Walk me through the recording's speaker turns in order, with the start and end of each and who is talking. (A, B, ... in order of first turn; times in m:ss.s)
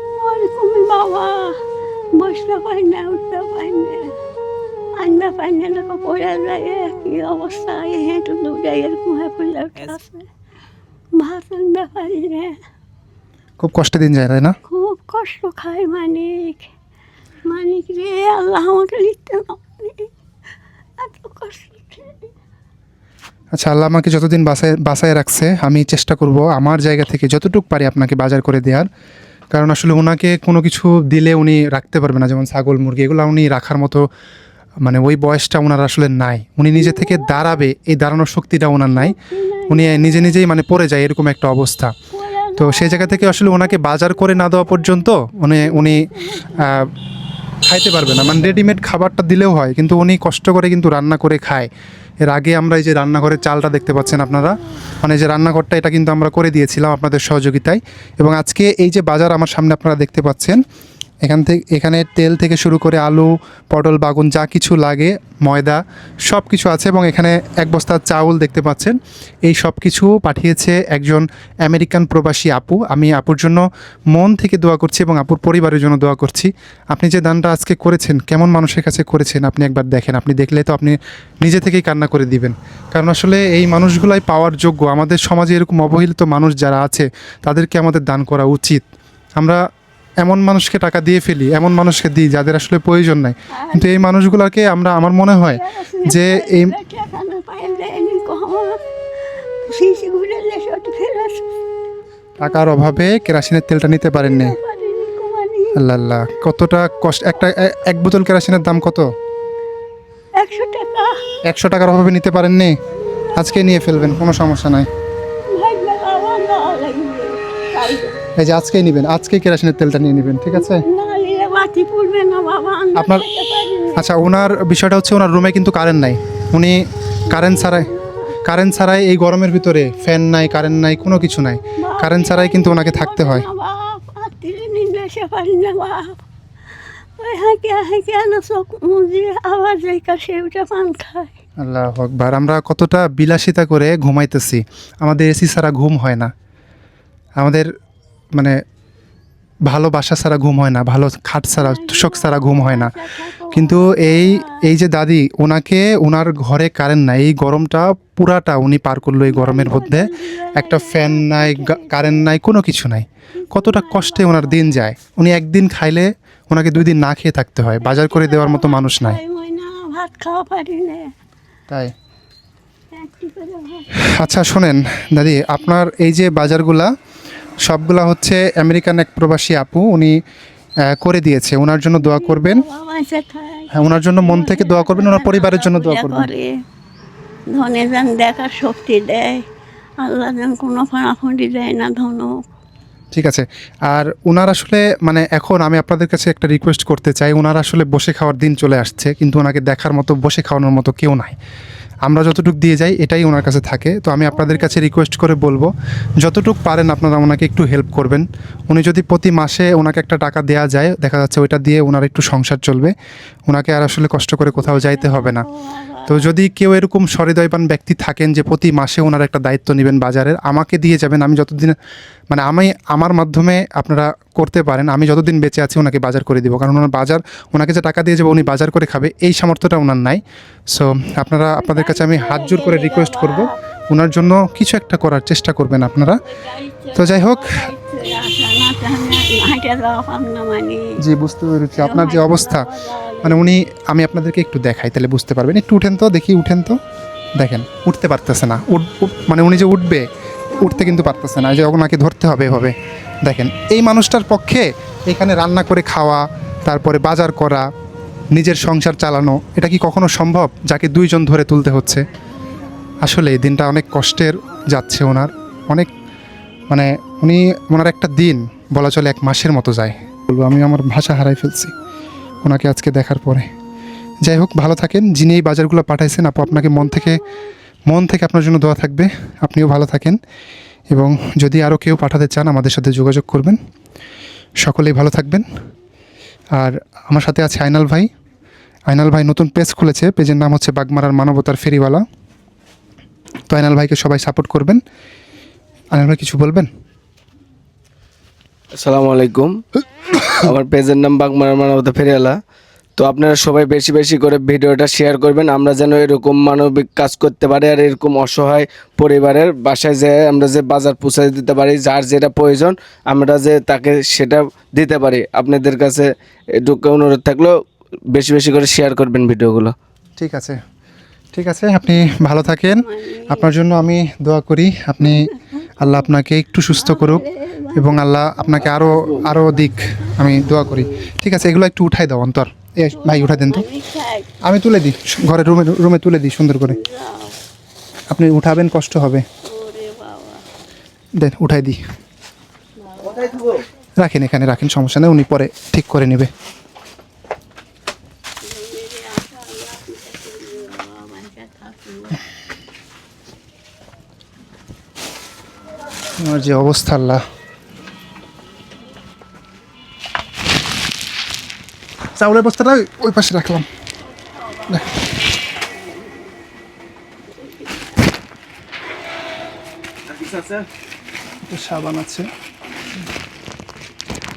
0:00.2-0:01.6 A
0:02.2-0:04.1 A
0:05.0-0:10.3 A
0:11.2-0:12.6 A
0:13.6-0:14.6 B
0:14.7-0:16.7 A
0:17.5-0:20.1 A
0:21.0-0:22.2 A
0:23.6-0:28.9 B
0:29.5-0:34.0 B
0:34.8-0:39.2 B
0:37.0-0:37.4 A
0:38.9-0:40.4 A
0:39.7-0:42.0 B
0:42.1-0:43.7 A
0:42.6-0:46.9 B
0:45.6-0:46.7 A
0:47.7-0:51.7 B
0:52.3-1:00.6 B
1:01.2-1:09.0 B
1:09.5-1:28.8 B
1:30.2-1:36.7 B
1:33.5-1:34.0 A
1:35.5-1:38.8 A
1:39.6-1:41.4 A
1:42.4-1:44.6 B
1:44.1-1:45.8 A
1:45.8-1:49.0 B
1:50.4-1:51.3 A
1:51.4-1:52.7 B
1:53.1-1:53.4 A
1:53.4-1:54.9 B
1:55.4-1:58.2 A
1:58.4-2:00.8 B
2:00.5-2:04.0 A
2:03.0-2:03.2 B
2:04.0-2:07.9 B
2:07.3-2:08.4 A
2:08.4-2:13.5 B
2:11.8-2:16.2 A
2:17.2-2:21.3 A
2:21.6-2:26.3 B
2:27.4-2:27.7 B
2:29.7-2:32.9 B
2:31.6-2:34.6 A
2:33.5-2:49.2 B
2:39.2-2:42.3 A
2:43.4-2:44.8 A
2:47.8-2:51.1 A
2:52.9-2:53.9 A
2:54.0-2:56.9 B
2:57.6-3:00.1 B
3:00.9-3:02.6 B
3:02.0-3:06.5 A
3:03.7-3:06.3 B
3:07.5-3:09.4 A
3:10.0-3:12.5 A
3:13.1-3:21.4 B
3:22.0-3:25.7 B
3:24.3-3:24.8 A
3:26.2-3:32.9 B
3:33.5-3:35.5 B
3:34.6-3:36.4 A
3:36.1-3:41.8 B
3:42.3-3:50.2 B
3:50.7-3:56.2 B
3:51.5-3:53.5 A
3:56.2-4:00.9 A
3:57.0-3:57.7 B
4:01.0-4:02.7 B
4:01.8-4:03.5 A
4:03.2-4:06.8 B
4:07.4-4:10.0 B
4:10.6-4:11.2 A
4:10.6-4:17.6 B
4:18.3-4:22.0 B
4:23.0-4:25.9 B
4:26.7-4:31.7 B
4:32.4-4:33.4 B
4:34.2-4:37.2 B
4:36.5-4:37.2 A
4:37.9-4:40.2 B
4:40.9-4:43.6 B
4:44.6-4:45.4 B
4:46.6-4:48.1 B
4:48.9-4:52.0 B
4:53.5-4:54.8 B
4:55.9-4:56.7 B
4:58.8-4:59.6 C
5:00.3-5:02.4 C
5:03.0-5:17.6 C
5:18.1-5:19.7 C
5:20.2-5:20.6 B
5:21.3-5:25.3 B
5:22.3-5:23.5 A
5:25.0-5:26.0 A
5:25.8-5:33.6 B
5:26.7-5:30.8 A
5:32.9-5:34.3 A
5:34.4-5:36.8 B
5:36.6-5:37.4 A
5:38.1-5:39.2 B
5:39.4-5:40.4 A
5:41.2-5:41.8 B
5:42.9-5:43.6 A
5:44.0-5:46.3 B
5:48.4-5:52.2 A
5:56.2-5:57.2 B
6:02.2-6:03.6 B
6:04.5-6:06.3 A
6:07.3-6:07.9 A
6:10.1-6:10.6 C
6:11.5-6:12.3 B